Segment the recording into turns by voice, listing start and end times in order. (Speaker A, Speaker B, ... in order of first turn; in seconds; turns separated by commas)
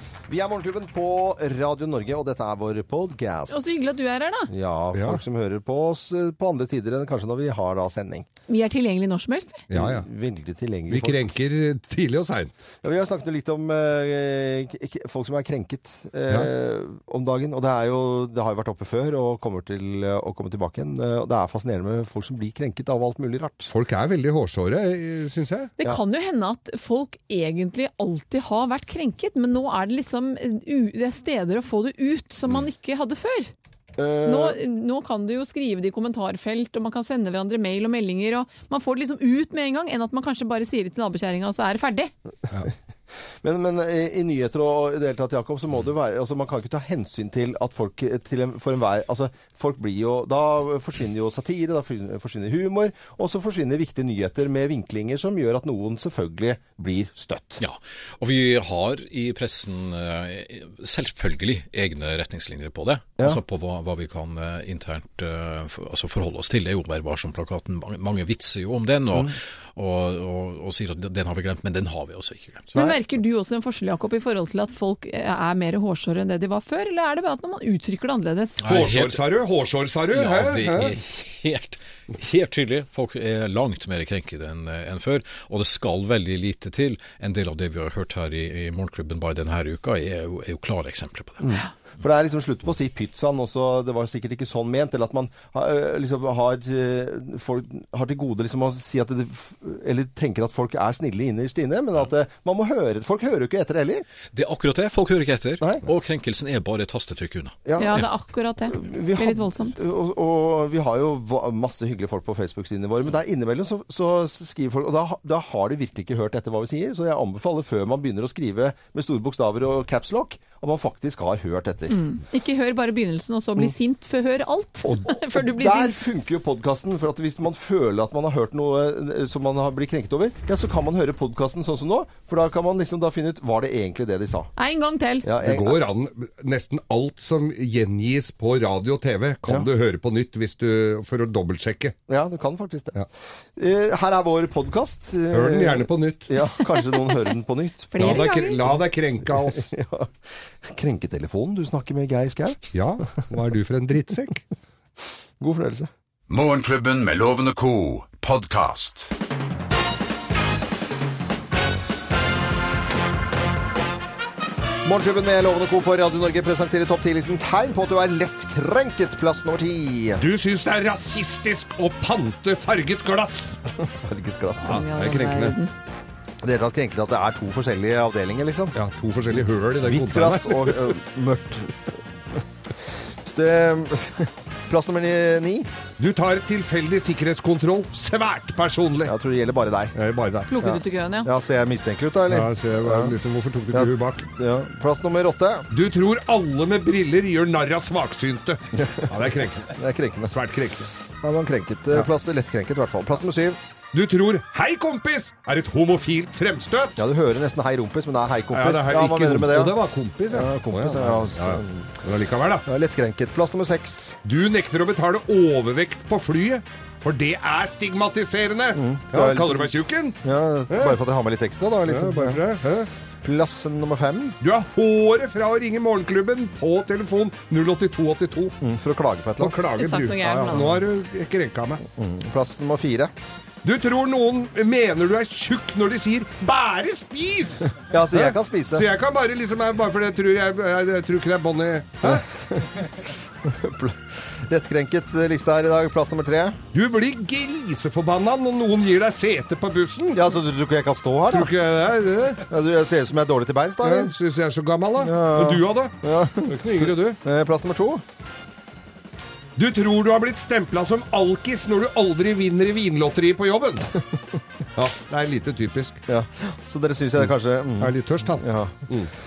Speaker A: 0.3-3.7, Speaker B: 3.5-4.5, Speaker A: 4.5-8.3, Speaker C: 4.9-5.2, Speaker B: 8.5-9.6, Speaker C: 9.7-10.1, Speaker A: 9.7-11.2, Speaker C: 10.9-12.5, Speaker A: 12.8-23.7, Speaker C: 23.7-25.7, Speaker B: 25.8-33.5, Speaker A: 34.0-34.6, Speaker B: 34.2-42.1, Speaker A: 43.4-57.6, Speaker D: 57.6-72.7, Speaker B: 72.7-78.6, Speaker D: 78.6-79.3, Speaker C: 78.6-81.0, Speaker D: 80.1-91.5, Speaker A: 91.4-104.0, Speaker D: 104.3-108.1, Speaker A: 107.7-108.0, Speaker B: 107.8-109.8, Speaker A: 108.7-122.0, Speaker B: 121.9-126.0, Speaker A: 125.3-134.5, Speaker B: 134.6-135.3, Speaker A: 135.2-135.8, Speaker C: 135.4-141.9, Speaker A: 142.1-143.0, Speaker A: 143.6-148.5, Speaker C: 145.3-146.3, Speaker B: 147.9-148.6, Speaker C: 148.0-149.7, Speaker A: 149.3-152.7, Speaker C: 152.7-154.4, Speaker A: 155.4-155.9, Speaker E: 156.3-159.1, Speaker A: 164.8-170.2, Speaker C: 170.2-173.6, Speaker A: 173.8-174.8, Speaker B: 174.6-175.7, Speaker C: 174.6-175.5, Speaker A: 176.4-178.7, Speaker C: 178.7-180.9, Speaker A: 179.8-185.7, Speaker C: 186.0-189.1, Speaker A: 189.0-189.9, Speaker C: 189.9-190.5, Speaker B: 190.5-191.3, Speaker A: 190.6-193.2, Speaker C: 192.3-194.2, Speaker A: 193.7-195.7, Speaker C: 195.7-199.7, Speaker A: 198.7-203.6, Speaker C: 200.3-200.9, Speaker C: 203.9-206.9, Speaker A: 206.9-209.8, Speaker C: 208.5-212.6, Speaker A: 210.3-212.0, Speaker A: 212.6-214.2, Speaker C: 214.2-220.2, Speaker A: 218.7-222.4, Speaker C: 220.7-221.0, Speaker C: 221.8-222.9, Speaker A: 223.2-224.4, Speaker C: 224.4-228.6, Speaker A: 228.6-229.7, Speaker C: 229.4-231.8, Speaker B: 229.8-230.8, Speaker A: 231.9-233.1, Speaker C: 233.6-242.2, Speaker A: 237.8-238.9, Speaker A: 242.0-242.7, Speaker A: 243.4-246.6, Speaker C: 246.7-250.3, Speaker A: 250.1-251.5, Speaker C: 251.3-252.4, Speaker A: 252.5-254.1, Speaker C: 253.8-255.9, Speaker A: 255.0-258.0, Speaker C: 256.5-257.2, Speaker C: 259.6-263.9, Speaker C: 264.8-266.0, Speaker A: 266.1-268.8, Speaker C: 267.8-269.1